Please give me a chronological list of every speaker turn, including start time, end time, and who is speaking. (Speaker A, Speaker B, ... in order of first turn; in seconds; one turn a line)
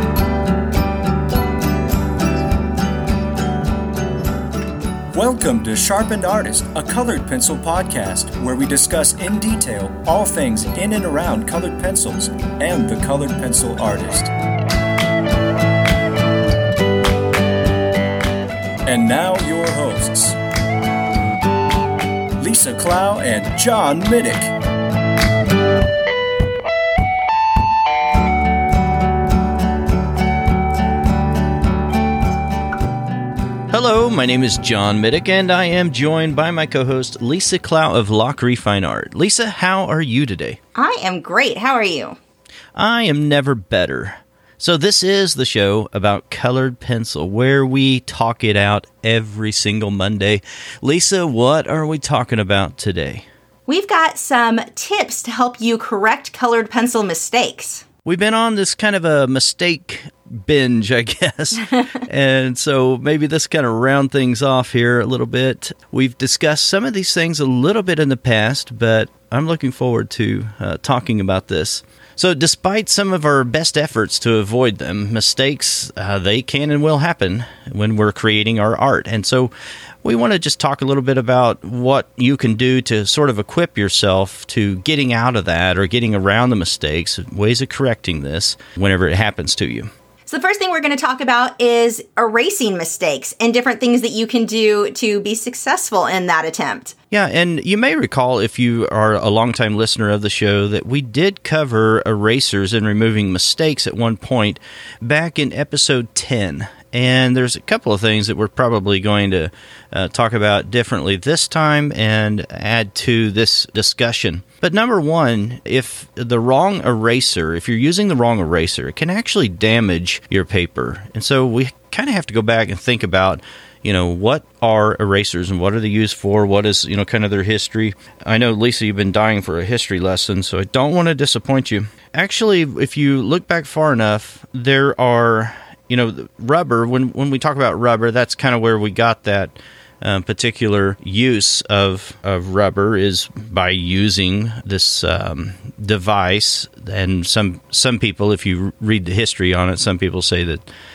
Speaker A: 5.1-14.3
Speaker A: 18.9-20.4
Speaker A: 22.4-24.5
Speaker B: 33.7-40.6
Speaker C: 40.7-42.2
Speaker B: 42.8-53.2
Speaker C: 53.7-57.8
Speaker B: 58.0-79.5
Speaker B: 80.0-89.9
Speaker C: 90.3-96.9
Speaker B: 97.1-150.6